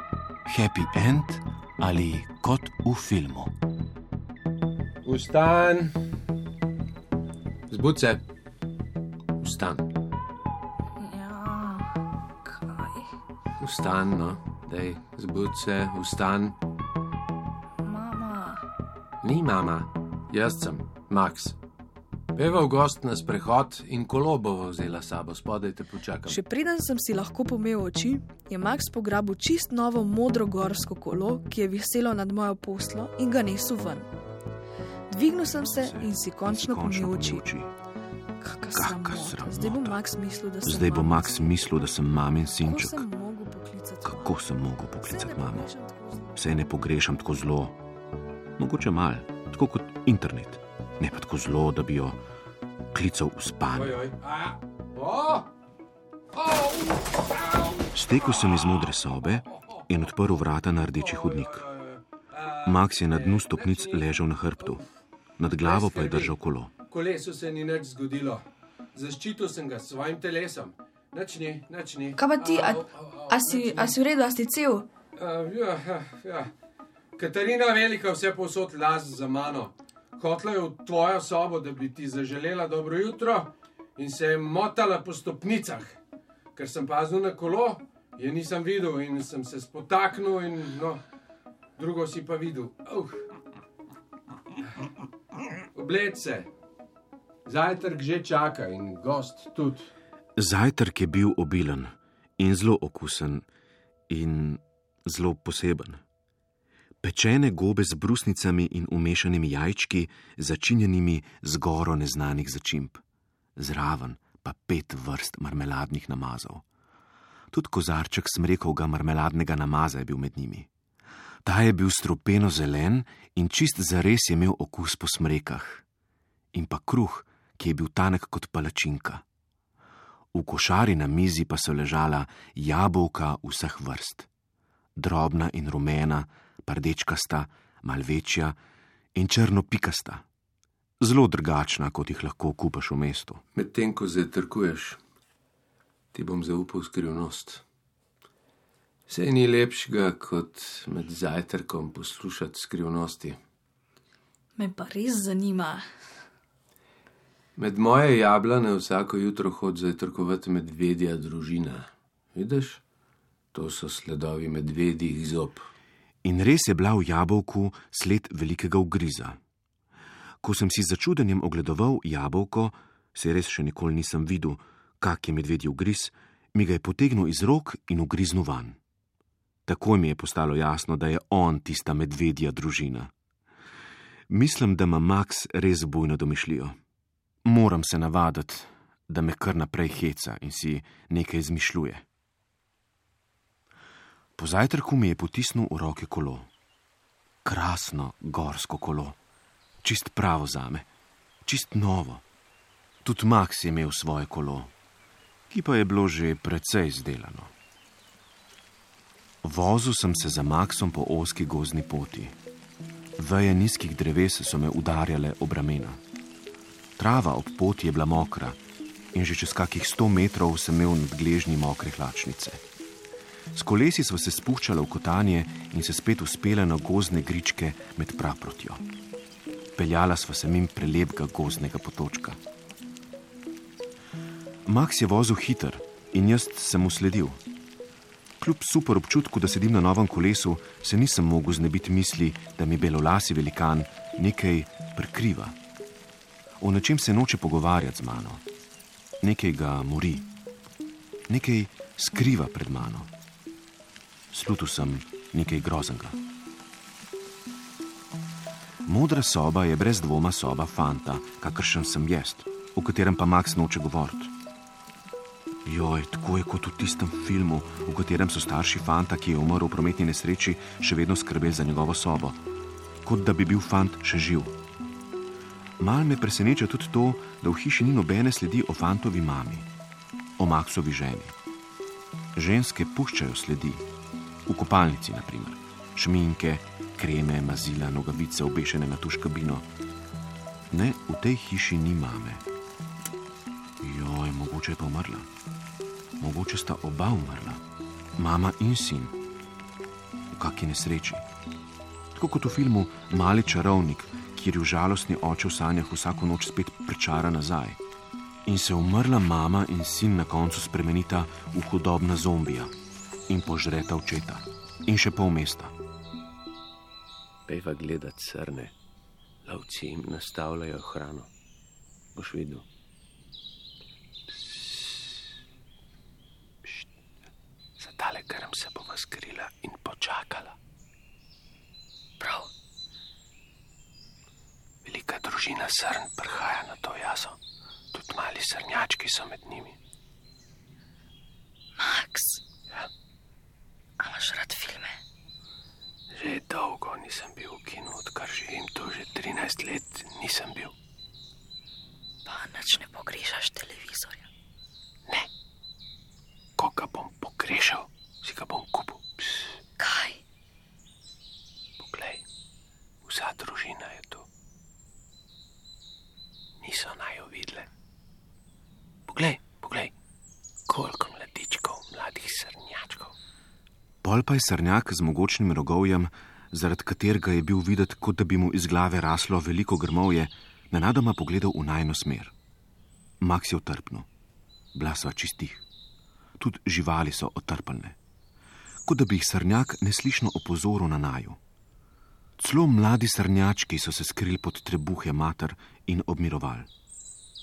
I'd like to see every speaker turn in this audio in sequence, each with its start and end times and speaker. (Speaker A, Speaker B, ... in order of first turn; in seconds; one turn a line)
Speaker A: 0.5-3.5
Speaker B: 5.0-6.0
Speaker B: 7.7-8.2
Speaker B: 9.4-9.9
Speaker C: 11.0-11.9
Speaker C: 12.4-13.1
Speaker B: 13.6-16.6
Speaker C: 17.8-18.6
Speaker B: 19.2-21.6
Speaker B: 22.4-26.4
Speaker C: 26.3-34.1
Speaker C: 35.1-37.5
Speaker A: 35.5-37.7
Speaker C: 38.4-41.4
Speaker A: 38.7-40.0
Speaker A: 40.6-43.0
Speaker C: 42.6-44.3
Speaker A: 44.0-45.7
Speaker C: 45.0-46.4
Speaker A: 46.4-47.8
Speaker A: 48.6-52.2
Speaker A: 52.9-54.0
Speaker B: 53.7-55.5
Speaker B: 56.3-57.9
Speaker A: 57.9-61.6
Speaker B: 61.0-64.1
Speaker A: 62.6-64.8
Speaker A: 65.4-66.7
Speaker B: 65.5-66.3
Speaker B: 66.9-68.4
Speaker B: 69.0-74.0
Speaker C: 72.2-74.9
Speaker B: 75.2-76.5
Speaker B: 77.2-86.0
Speaker B: 86.5-91.0
Speaker B: 91.8-93.3
Speaker B: 95.8-96.5
Speaker B: 97.5-99.9
Speaker A: 100.4-103.5
Speaker A: 104.1-106.0
Speaker A: 107.0-113.0
Speaker A: 113.6-116.6
Speaker A: 117.5-120.7
Speaker A: 121.5-125.8
Speaker A: 126.5-129.2
Speaker A: 130.3-134.3
Speaker A: 134.9-138.6
Speaker A: 139.1-140.2
Speaker A: 141.0-143.4
Speaker B: 143.6-145.0
Speaker B: 146.1-147.6
Speaker B: 149.1-153.4
Speaker C: 154.6-155.8
Speaker B: 157.6-162.8
Speaker B: 163.5-165.6
Speaker A: 166.2-169.4
Speaker A: 170.4-178.8
Speaker A: 179.7-183.1
Speaker A: 184.3-186.8
Speaker A: 187.4-192.0
Speaker A: 194.4-196.5
Speaker A: 197.4-199.2
Speaker A: 199.8-200.9
Speaker A: 201.4-202.2
Speaker A: 203.0-204.7
Speaker A: 205.5-207.5
Speaker A: 209.4-212.4
Speaker A: 213.2-216.0
Speaker A: 217.0-218.6
Speaker A: 219.1-222.6
Speaker A: 223.5-228.8
Speaker A: 229.8-232.4
Speaker A: 234.7-237.4
Speaker A: 238.4-245.6
Speaker A: 246.6-248.4
Speaker A: 249.2-250.2
Speaker A: 251.3-253.1
Speaker A: 254.3-256.2
Speaker A: 258.9-264.3
Speaker A: 265.6-272.4
Speaker A: 273.0-274.5
Speaker A: 275.8-279.7
Speaker A: 280.4-281.4
Speaker A: 282.4-283.8
Speaker A: 284.5-289.7
Speaker A: 290.7-292.4
Speaker A: 293.8-295.3
Speaker A: 296.2-297.6
Speaker A: 298.2-299.2
Speaker A: 300.3-301.2
Speaker A: 302.1-307.8
Speaker A: 308.5-312.7
Speaker A: 313.3-315.7
Speaker B: 317.5-318.7
Speaker B: 319.5-321.3
Speaker B: 322.1-322.6
Speaker B: 324.3-325.2
Speaker B: 327.8-330.6
Speaker C: 332.2-332.5
Speaker B: 334.9-337.4
Speaker B: 337.9-339.8
Speaker C: 341.8-342.4
Speaker C: 344.0-345.0
Speaker B: 346.1-350.7
Speaker C: 352.2-354.2
Speaker B: 356.6-359.6
Speaker C: 359.8-360.2
Speaker B: 361.8-362.2
Speaker B: 363.1-364.2
Speaker B: 366.6-367.7
Speaker B: 369.1-369.9
Speaker B: 370.7-373.1
Speaker A: 374.0-382.3
Speaker A: 383.2-384.1
Speaker A: 384.7-385.6
Speaker A: 386.4-388.0
Speaker A: 388.9-391.4
Speaker A: 392.4-396.7